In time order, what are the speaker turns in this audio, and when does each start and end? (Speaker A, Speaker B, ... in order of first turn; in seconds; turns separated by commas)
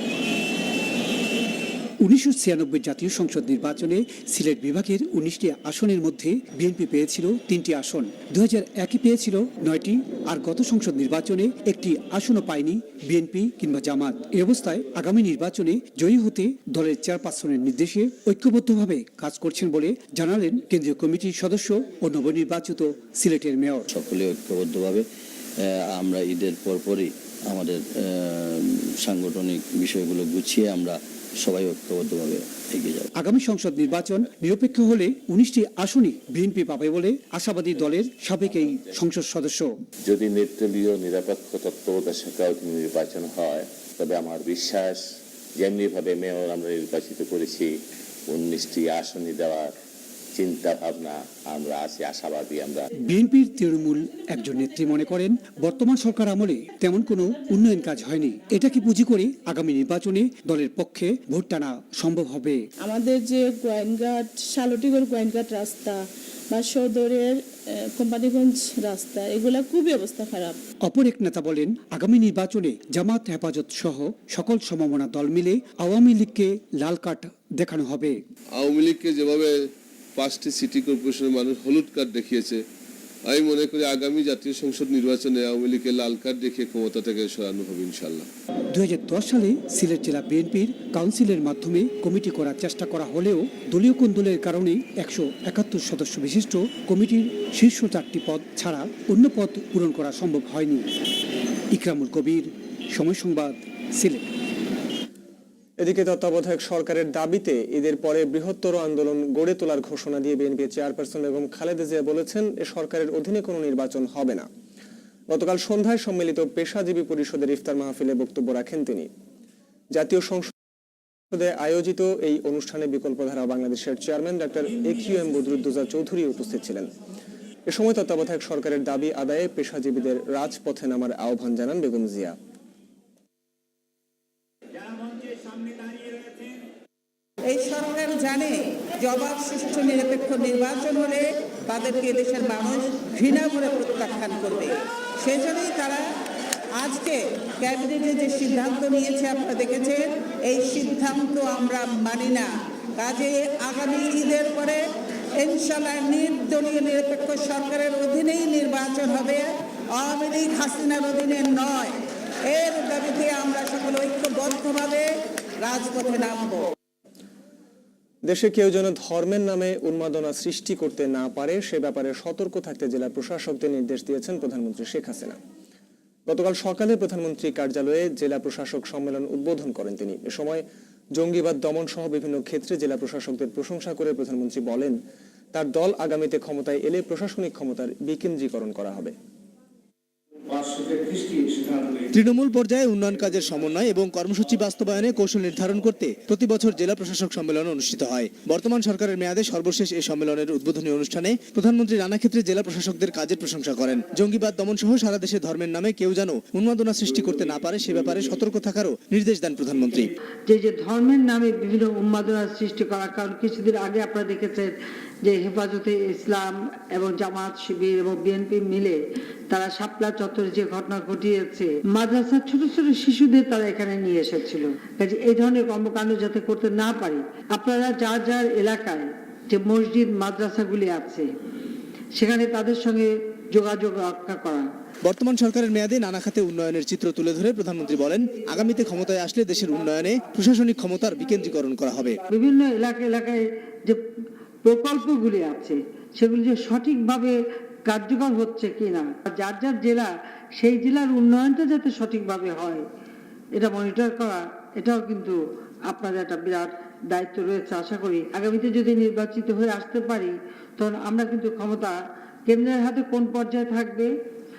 Speaker A: 2.0-23.9, Speaker B: 23.9-25.0, Speaker B: 25.7-33.1, Speaker A: 33.1-39.7, Speaker C: 40.0-45.0, Speaker C: 45.5-47.7, Speaker C: 48.3-49.7, Speaker C: 50.3-52.9, Speaker A: 53.1-62.6, Speaker D: 62.8-66.0, Speaker D: 66.5-67.3, Speaker D: 67.9-70.6, Speaker A: 70.8-78.2, Speaker E: 78.6-82.6, Speaker E: 83.3-88.3, Speaker A: 88.7-100.9, Speaker A: 101.7-104.2, Speaker F: 105.8-114.5, Speaker F: 115.3-119.1, Speaker F: 119.9-120.5, Speaker F: 121.3-126.9, Speaker F: 127.7-132.4, Speaker G: 137.4-146.1, Speaker G: 146.7-165.1, Speaker G: 165.6-166.7, Speaker F: 168.2-175.4, Speaker F: 176.3-185.0, Speaker F: 185.5-189.1, Speaker H: 192.1-210.1, Speaker E: 196.4-196.9, Speaker E: 199.2-199.6, Speaker E: 203.1-203.6, Speaker E: 209.2-209.8, Speaker I: 210.5-231.3, Speaker I: 232.1-234.7, Speaker H: 235.1-242.2, Speaker I: 242.3-244.0, Speaker I: 244.6-252.8, Speaker I: 253.5-264.1